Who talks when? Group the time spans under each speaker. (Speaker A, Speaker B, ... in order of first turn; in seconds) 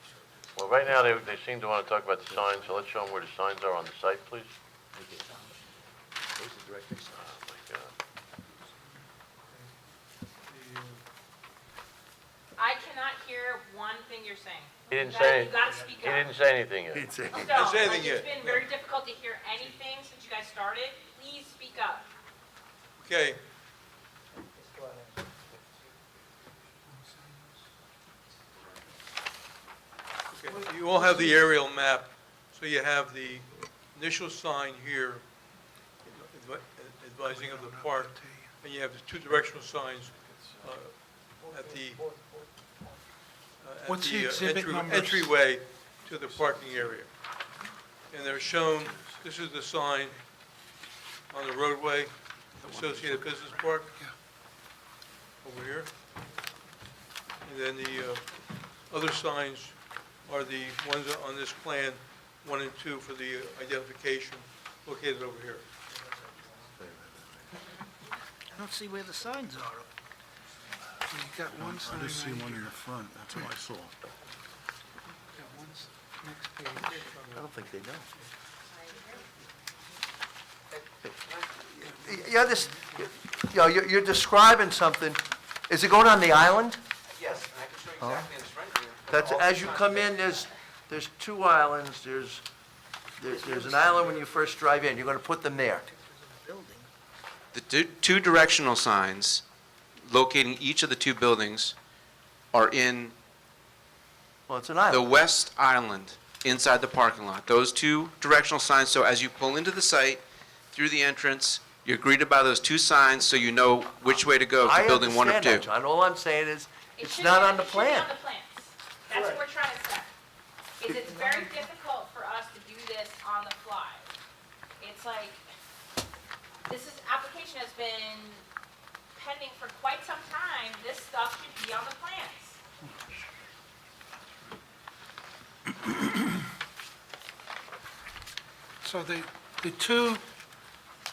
Speaker A: 0.6-4.5, 7.1-7.9, 14.9-17.1
Speaker B: 6.4-7.2, 16.9-17.6, 77.3-78.1, 81.6-86.8, 88.0-88.3, 89.1-92.4, 93.2-95.8, 104.5-105.1, 114.6-118.1
Speaker C: 10.4-11.0, 17.5-18.7, 23.0-23.4, 30.3-35.3, 36.0-42.1, 43.6-47.1, 48.1-50.2, 51.3-53.9, 55.4-55.9, 57.4-65.7, 76.9-77.5
Speaker D: 12.6-16.3, 17.3-22.1, 78.7-79.3, 116.9-120.1, 120.8-124.1, 124.8-125.4, 126.6-128.4, 129.1-132.6
Speaker E: 24.6-25.9, 87.2-90.5
Speaker F: 27.0-27.4, 37.2-38.5, 43.9-45.4, 68.5-69.9, 71.1-72.7, 75.3-77.1, 96.4-96.8, 138.8-140.2
Speaker G: 52.6-53.7, 97.5-99.4, 100.0-101.7, 102.5-103.1, 104.9-115.7
Speaker H: 71.5-74.0